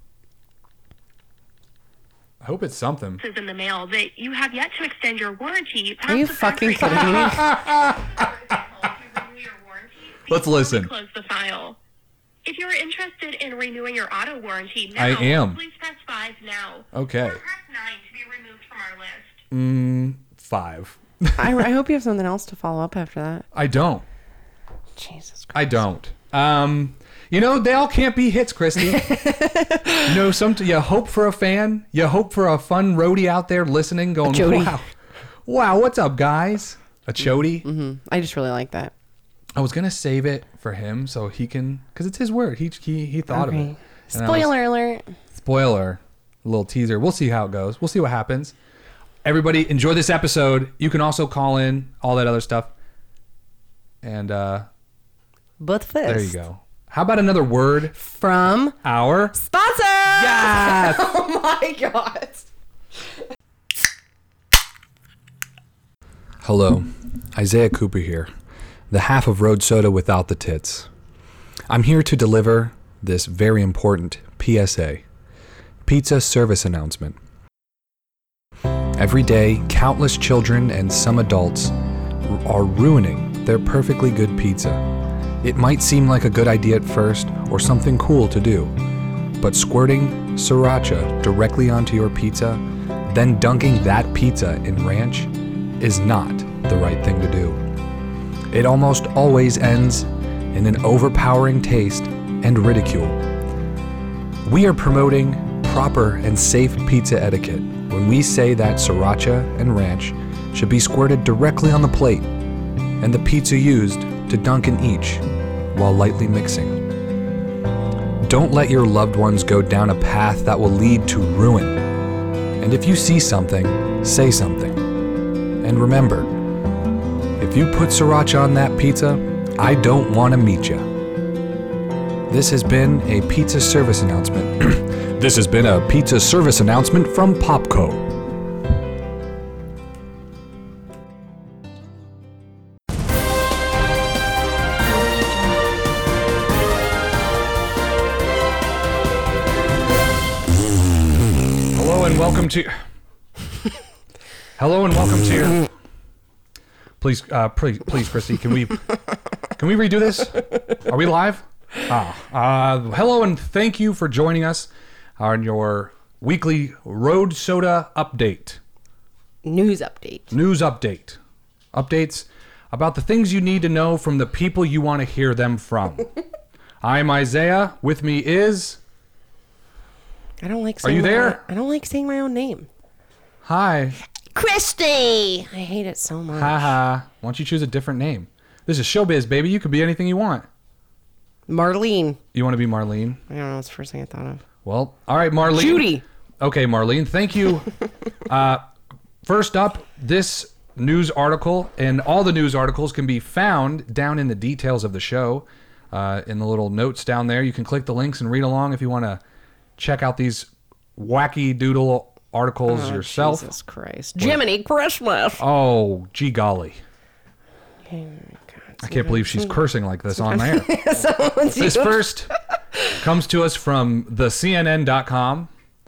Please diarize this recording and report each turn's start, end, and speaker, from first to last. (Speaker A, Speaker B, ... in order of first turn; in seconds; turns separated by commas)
Speaker A: 2.4-3.2, Speaker B: 3.2-7.6, Speaker C: 6.1-7.5, Speaker A: 6.9-8.2, Speaker B: 8.1-11.8, Speaker A: 10.3-10.9, Speaker B: 12.4-16.9, Speaker A: 14.9-15.6, Speaker A: 16.9-17.4, Speaker B: 17.4-19.4, Speaker A: 19.5-21.7, Speaker C: 21.4-23.5, Speaker A: 23.5-24.1, Speaker C: 25.0-25.8, Speaker A: 25.5-29.1, Speaker C: 28.9-30.1, Speaker A: 30.0-34.9, Speaker C: 34.2-34.8, Speaker A: 35.5-37.7, Speaker C: 37.6-38.9, Speaker A: 39.5-44.5, Speaker C: 43.3-45.1, Speaker A: 45.3-48.5, Speaker A: 49.2-52.7, Speaker A: 54.0-54.7, Speaker C: 55.6-56.3, Speaker A: 56.1-58.0, Speaker C: 58.0-58.8, Speaker A: 58.8-59.4, Speaker C: 59.3-62.5, Speaker A: 60.2-61.1, Speaker A: 66.4-68.3, Speaker A: 68.9-70.9, Speaker A: 71.7-75.0, Speaker A: 75.8-77.2, Speaker A: 79.0-84.8, Speaker A: 85.4-88.7, Speaker A: 89.4-97.6, Speaker A: 98.5-103.2, Speaker A: 104.5-112.3, Speaker A: 113.0-115.2, Speaker A: 115.7-116.8, Speaker A: 118.2-121.8, Speaker A: 122.6-124.8, Speaker A: 125.6-126.3, Speaker A: 127.4-130.9, Speaker A: 132.3-138.1, Speaker A: 151.7-152.7, Speaker A: 154.6-155.6, Speaker A: 157.0-158.9, Speaker A: 159.6-168.6, Speaker C: 169.4-170.3, Speaker A: 170.3-171.2, Speaker A: 171.7-176.1, Speaker A: 176.8-178.8, Speaker C: 180.4-182.7, Speaker A: 180.8-181.4, Speaker A: 183.4-184.0, Speaker C: 184.4-186.8, Speaker A: 186.3-190.5, Speaker C: 191.5-192.2, Speaker A: 192.3-193.2, Speaker C: 193.3-194.4, Speaker A: 194.6-197.7, Speaker C: 195.5-196.0, Speaker A: 198.3-198.7, Speaker A: 199.2-209.2, Speaker A: 209.8-213.5, Speaker C: 212.7-215.4, Speaker A: 215.4-216.8, Speaker C: 217.9-219.6, Speaker A: 218.8-220.7, Speaker C: 220.1-222.2, Speaker A: 221.5-222.3, Speaker A: 222.9-225.5